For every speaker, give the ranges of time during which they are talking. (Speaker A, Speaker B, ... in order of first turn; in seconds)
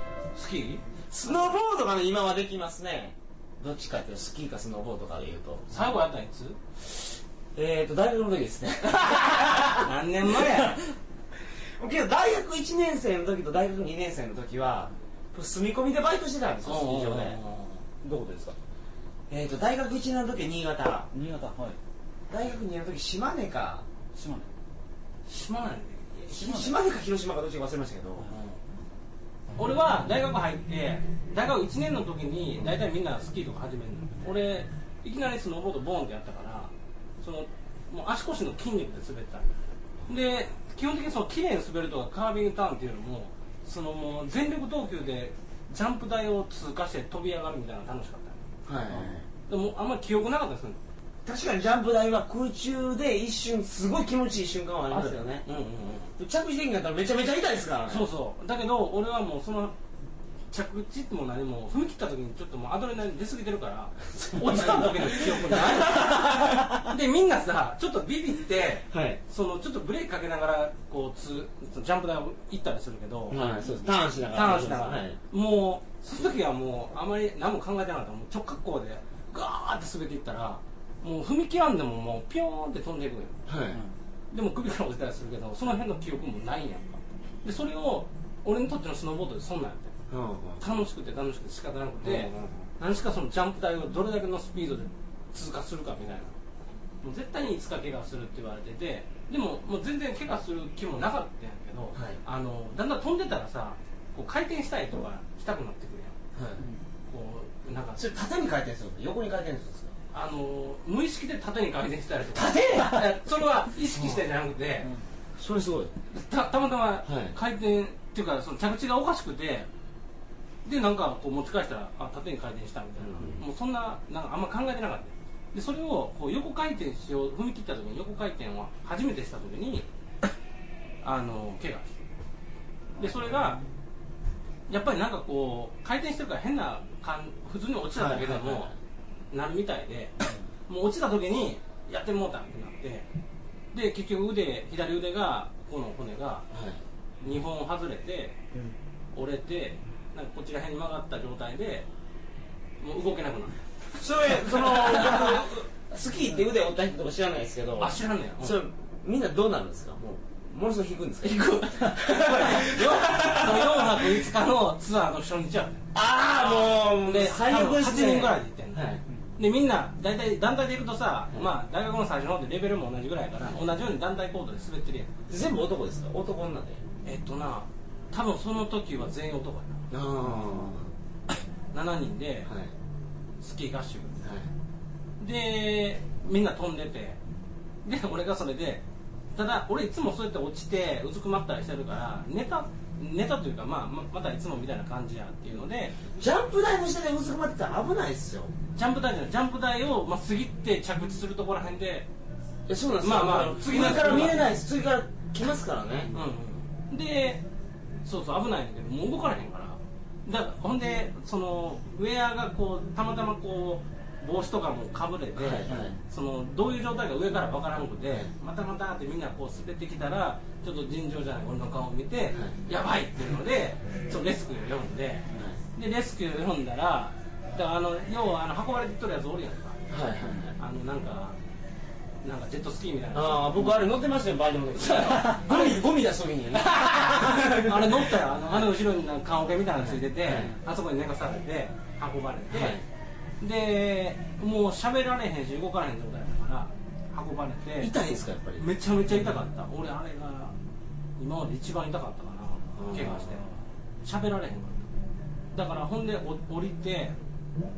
Speaker A: 0.3-0.8, 5.7-6.6, 9.7-10.8, 16.7-17.8, 25.3-26.1, 29.6-39.5, 40.1-48.4, 49.5-50.8, 54.9-56.1, 57.9-59.8, 60.5-73.6, 74.3-83.4, 84.3-89.9, 90.6-96.3, 97.0-106.2, 107.1-108.0, 110.1-114.9, 116.1-119.7, 120.7-129.9, 131.0-132.0, 133.0-133.6, 134.7-138.7, 139.3-140.2, 140.7-143.1, 143.7-146.4, 147.2-148.4, 149.1-151.9, 152.8-155.4, 157.8-158.6, 161.2-175.1, 177.1-179.8, 181.7-182.5, 183.4-184.3, 185.2-187.2, 187.8-188.8, 189.3-195.9, 198.8-202.1, 203.0-204.5, 206.1-207.4, 208.1-229.8, 230.6-231.4, 232.2-233.6, 234.8-235.8, 236.6-242.8, 243.4-247.9, 248.6-250.6, 251.2-253.4, 254.0-254.9, 255.5-257.1
Speaker B: 1.1-5.7, 7.5-9.9, 11.8-17.4, 19.3-21.1, 22.3-23.9, 26.2-28.3, 48.7-49.2, 51.3-55.5, 56.2-58.1, 64.2-66.6, 68.9-69.2, 73.3-75.2, 83.5-83.8, 90.1-90.6, 92.0-92.7, 106.3-106.6, 108.0-109.9, 115.4-115.9, 117.0-117.3, 123.1-123.4, 138.0-138.7, 146.5-146.8, 154.0-164.1, 165.9-169.0, 175.3-176.8, 179.9-180.9, 182.5-182.7, 196.2-198.5, 202.7-206.1, 215.4-216.0, 229.9-230.5, 233.1-238.1, 239.8-240.5, 242.5-242.8, 247.8-248.7, 252.8-253.3
Speaker C: 18.0-18.6, 21.1-21.8, 24.1-24.5, 26.3-26.8, 48.9-49.1, 133.2-133.6, 180.2-180.8